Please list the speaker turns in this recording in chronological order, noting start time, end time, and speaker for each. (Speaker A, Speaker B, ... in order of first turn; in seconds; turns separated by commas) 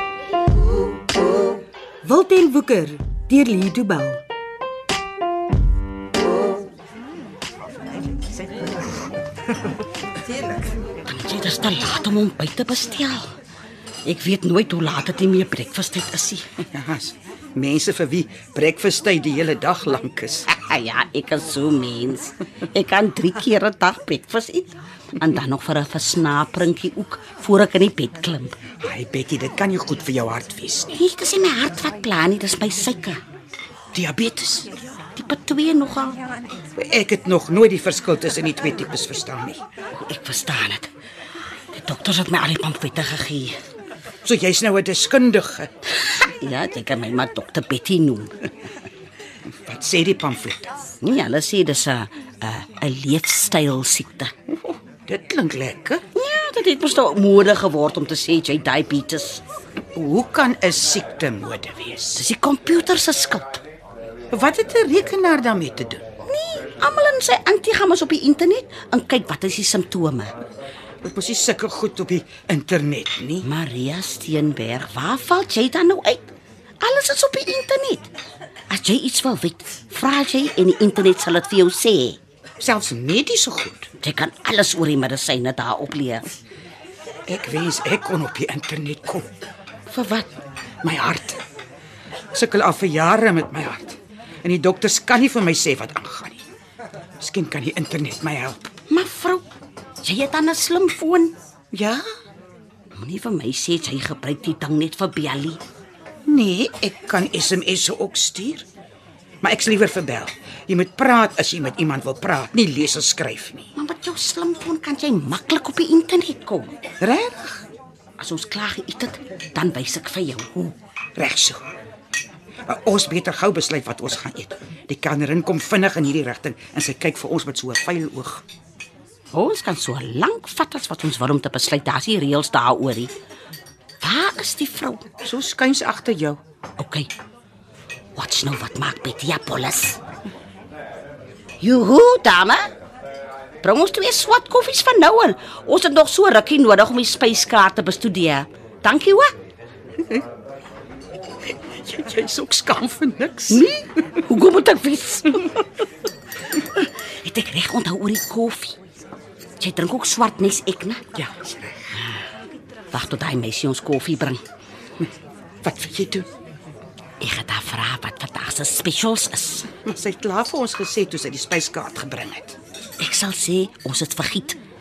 Speaker A: 2.0-4.2, Speaker B: 11.1-13.3, Speaker B: 14.0-16.5, Speaker C: 16.7-20.5, Speaker B: 20.5-28.6, Speaker C: 28.8-31.0, Speaker B: 30.9-33.2, Speaker C: 33.9-34.7, Speaker B: 35.1-36.2, Speaker C: 36.8-39.6, Speaker B: 39.9-40.9, Speaker B: 41.7-43.5, Speaker C: 44.2-45.7, Speaker B: 46.2-48.3, Speaker C: 49.6-50.8, Speaker B: 51.0-54.3, Speaker C: 54.6-56.0, Speaker B: 56.1-59.4, Speaker C: 59.9-62.2, Speaker B: 62.1-63.6, Speaker C: 64.3-66.0, Speaker B: 66.3-70.3, Speaker C: 71.0-73.5, Speaker B: 73.4-76.3, Speaker B: 76.8-78.1, Speaker B: 78.7-82.2, Speaker C: 82.6-83.9, Speaker B: 84.0-86.3, Speaker C: 87.3-89.3, Speaker B: 89.9-90.3, Speaker C: 90.8-91.4, Speaker C: 92.3-96.4, Speaker C: 97.2-98.7, Speaker B: 98.9-99.4, Speaker B: 100.0-101.3, Speaker C: 101.7-102.0, Speaker B: 102.9-105.6, Speaker C: 106.2-108.7, Speaker C: 109.4-113.7, Speaker B: 113.7-116.8, Speaker C: 117.0-117.6, Speaker B: 118.2-120.7, Speaker C: 121.2-121.6, Speaker C: 122.7-128.4, Speaker B: 129.3-133.1, Speaker B: 134.0-135.1, Speaker C: 135.2-136.4, Speaker B: 136.8-137.1, Speaker B: 138.1-140.0, Speaker B: 141.6-142.6, Speaker B: 143.6-149.3, Speaker C: 151.8-153.7, Speaker B: 153.5-155.6, Speaker B: 156.8-158.8, Speaker B: 159.6-161.1, Speaker C: 161.1-162.0, Speaker B: 162.9-164.4, Speaker C: 165.6-166.3, Speaker B: 167.2-169.7, Speaker C: 169.7-172.6, Speaker B: 173.0-174.6